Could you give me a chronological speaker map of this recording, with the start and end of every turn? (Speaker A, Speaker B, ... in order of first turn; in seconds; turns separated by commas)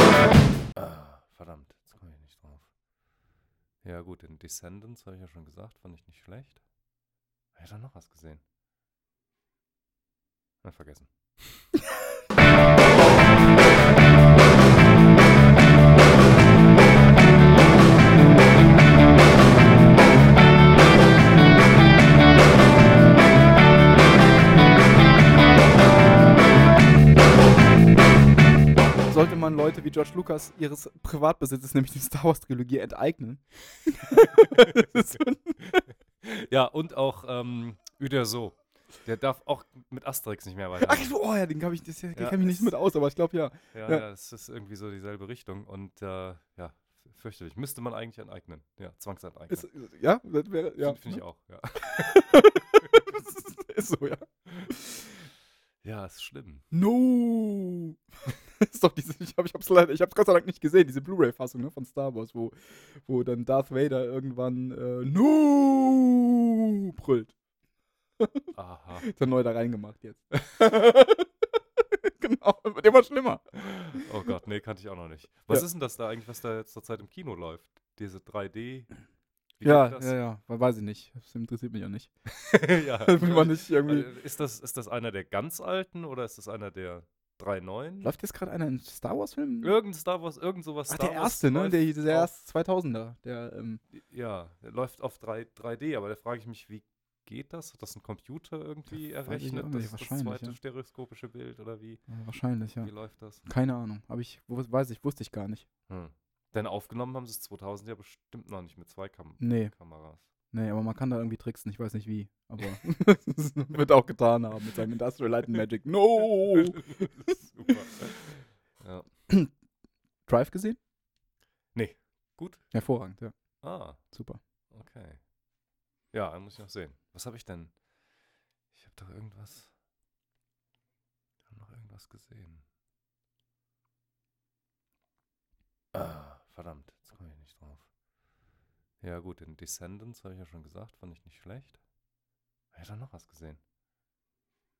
Speaker A: 0.7-2.7, Speaker A: 3.8-6.6, Speaker A: 7.5-8.4, Speaker A: 10.6-11.7, Speaker B: 29.1-35.8, Speaker A: 34.3-34.9, Speaker A: 35.6-41.1, Speaker B: 40.8-44.0, Speaker A: 42.1-42.7, Speaker A: 43.7-49.7, Speaker B: 49.5-51.2, Speaker A: 50.8-52.2, Speaker B: 51.9-54.9, Speaker A: 55.8-56.6, Speaker B: 56.7-67.3, Speaker A: 68.5-69.1, Speaker B: 69.0-71.4, Speaker B: 72.2-74.0, Speaker A: 73.6-78.9, Speaker A: 79.6-80.2, Speaker B: 79.6-84.1, Speaker A: 82.5-88.1, Speaker B: 88.0-89.8, Speaker A: 89.6-92.3, Speaker B: 90.9-93.8, Speaker A: 93.9-102.0, Speaker B: 99.2-100.6, Speaker B: 102.1-105.7, Speaker A: 102.8-103.4, Speaker A: 105.9-110.3, Speaker B: 109.4-109.8, Speaker B: 110.3-117.8, Speaker A: 116.5-119.1, Speaker B: 120.3-120.8, Speaker A: 121.7-122.7, Speaker B: 122.7-123.3, Speaker A: 123.6-124.0, Speaker B: 123.9-124.4, Speaker A: 124.7-125.2, Speaker A: 126.1-127.8, Speaker A: 128.7-129.7, Speaker A: 131.4-132.6, Speaker A: 135.9-137.9, Speaker A: 139.0-141.8, Speaker A: 142.7-143.6